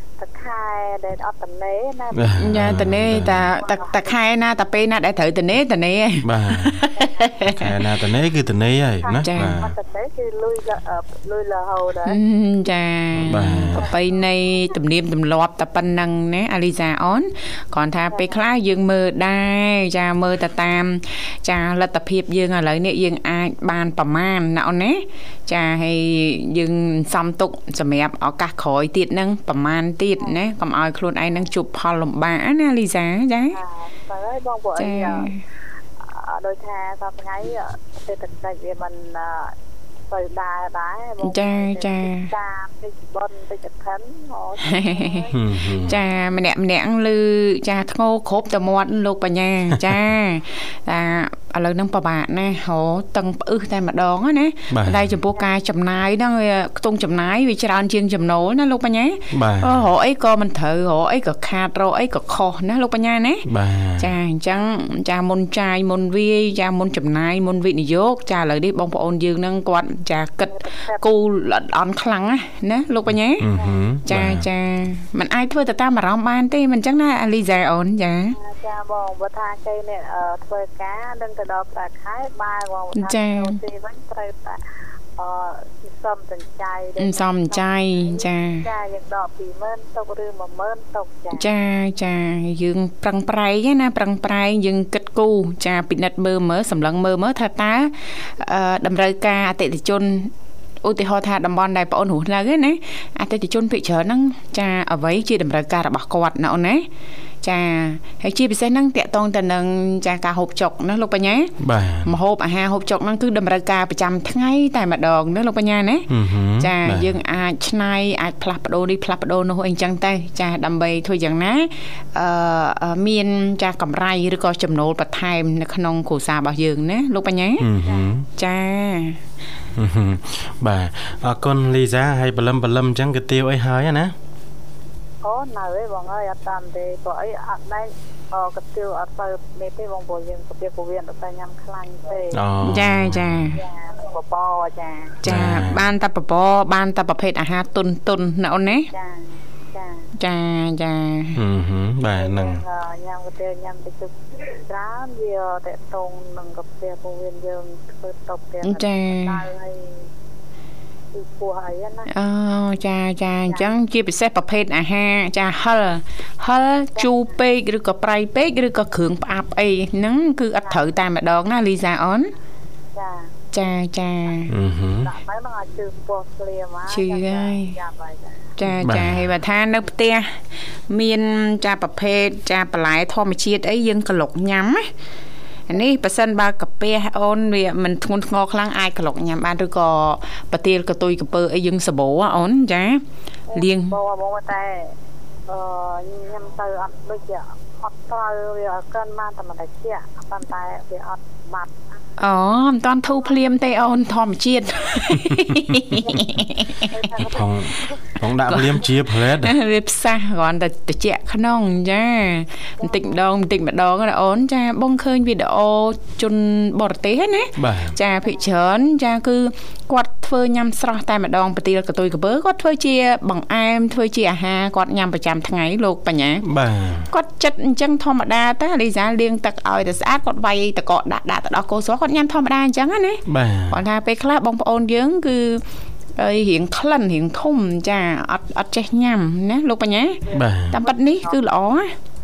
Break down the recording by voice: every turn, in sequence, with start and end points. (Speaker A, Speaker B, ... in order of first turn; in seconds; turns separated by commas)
Speaker A: 0.2-2.5, Speaker B: 2.1-3.5, Speaker C: 2.4-7.8, Speaker A: 3.5-4.1, Speaker B: 6.2-6.8, Speaker A: 6.9-7.3, Speaker B: 7.5-9.7, Speaker A: 9.0-12.2, Speaker C: 9.2-9.6, Speaker C: 12.0-33.6, Speaker B: 13.2-13.9, Speaker A: 18.1-18.3, Speaker A: 33.5-35.3, Speaker C: 34.8-35.4, Speaker A: 36.0-39.5, Speaker A: 40.1-46.0, Speaker C: 41.2-42.3, Speaker C: 44.6-45.2, Speaker B: 45.3-46.0, Speaker C: 45.8-63.5, Speaker B: 54.7-55.2, Speaker B: 59.3-59.9, Speaker B: 63.5-64.1, Speaker C: 64.0-73.5, Speaker A: 70.5-71.0, Speaker B: 73.4-74.5, Speaker A: 73.5-73.8, Speaker C: 74.0-78.3, Speaker A: 78.3-84.6, Speaker C: 82.9-83.6, Speaker A: 85.2-91.5, Speaker C: 87.0-88.6, Speaker C: 91.3-100.3, Speaker C: 100.8-106.8, Speaker C: 107.4-111.5, Speaker B: 111.6-112.1, Speaker C: 112.0-116.1, Speaker B: 116.1-117.1, Speaker C: 116.6-127.7, Speaker B: 127.6-128.2, Speaker A: 127.8-128.2, Speaker C: 128.4-129.2, Speaker B: 129.8-134.1, Speaker A: 135.2-142.5, Speaker B: 142.3-143.5, Speaker C: 142.6-143.6, Speaker A: 143.5-145.2, Speaker B: 145.2-145.9, Speaker C: 145.2-148.9, Speaker A: 148.9-150.1, Speaker C: 150.2-151.4, Speaker B: 151.3-152.6, Speaker A: 152.1-160.0, Speaker C: 158.6-159.4, Speaker A: 161.1-162.1, Speaker C: 162.1-172.3, Speaker A: 167.0-167.3, Speaker A: 172.9-173.4, Speaker C: 173.5-174.5, Speaker B: 174.5-175.1, Speaker A: 175.0-178.5, Speaker C: 176.9-177.7, Speaker C: 178.6-180.3, Speaker B: 178.8-179.3, Speaker C: 180.9-184.9, Speaker C: 185.7-193.0, Speaker A: 193.5-194.9, Speaker C: 193.5-193.9, Speaker A: 195.5-201.8, Speaker C: 202.2-207.0, Speaker B: 205.1-205.8, Speaker A: 205.9-207.9, Speaker B: 207.2-209.6, Speaker C: 208.5-226.4, Speaker B: 217.6-218.0, Speaker B: 226.4-227.1, Speaker C: 227.1-235.6, Speaker B: 233.2-233.8, Speaker C: 236.2-241.9, Speaker A: 240.2-241.4, Speaker B: 240.3-240.8